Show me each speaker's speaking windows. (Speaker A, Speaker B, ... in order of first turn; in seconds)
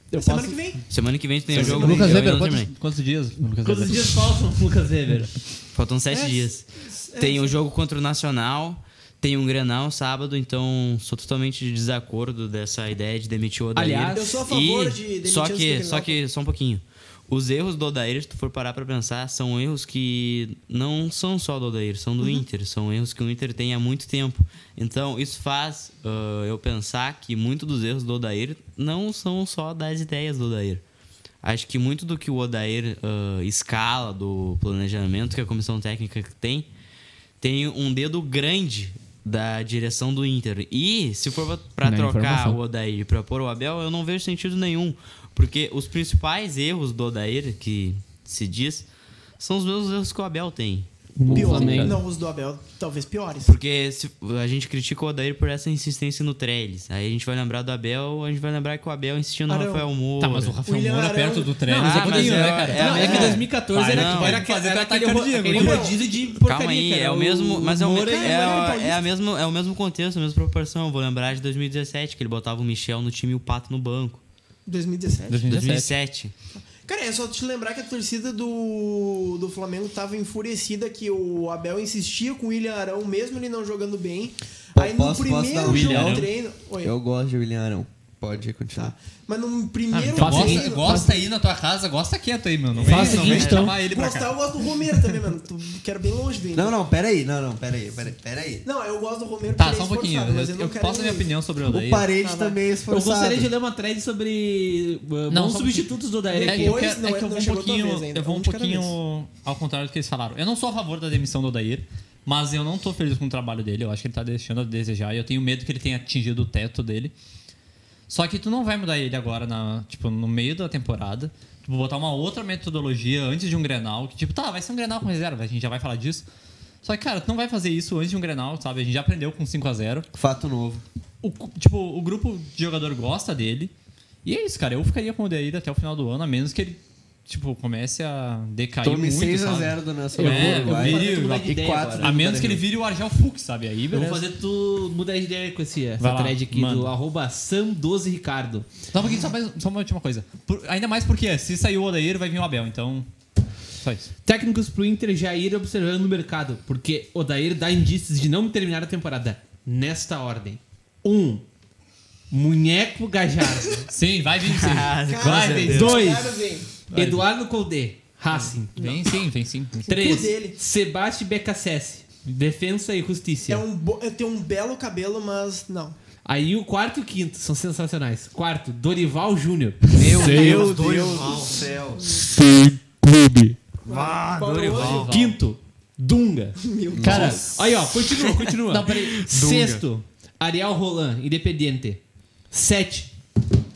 Speaker A: 0.1-0.8, 1.5-2.2, 6.1-7.6, 14.1-16.2, 51.3-53.5, 59.5-59.9, 60.6-61.6, 62.8-63.4, 65.5-66.1, 68.0-69.0, 74.7-75.5, 76.6-86.9, 88.8-91.1, 92.8-96.8, 98.6-101.3, 102.2-102.6, 106.3-109.0, 165.1-166.9, 169.9-170.6, 173.5-176.0, 183.8-185.1, 186.6-187.6
Speaker B: 0.2-0.5, 1.5-4.2, 51.3-52.0, 60.2-65.9, 75.3-76.0, 85.6-86.3, 89.9-94.4, 99.6-102.1, 105.3-117.1, 118.1-126.3, 126.8-130.1, 131.2-133.7, 134.2-144.2, 146.0-146.9, 148.9-153.1, 153.8-154.1, 163.9-165.9, 166.9-167.2, 168.3-169.9, 184.7-185.4, 187.0-187.7, 188.7-189.2
Speaker C: 0.9-2.7, 5.7-30.8, 31.4-36.7, 37.4-48.9, 49.4-50.9, 53.4-60.6, 61.8-64.5, 66.4-74.2, 75.5-76.3, 92.9-93.7, 164.4-166.1, 179.9-181.6, 183.9-185.1, 188.3-189.8
Speaker D: 3.6-5.3, 13.8-14.4, 41.8-42.6, 51.2-52.0, 61.6-68.6, 90.2-91.1, 92.8-93.8, 102.9-106.9, 140.2-142.1, 143.9-148.7, 154.2-161.4, 162.3-163.9, 165.3-168.8, 169.9-173.7, 176.2-180.7, 184.9-192.0, 192.5-193.1
Speaker E: 84.8-88.9, 96.5-98.7, 101.7-103.5, 130.1-130.8, 138.8-142.6, 180.0-182.2, 186.9-187.4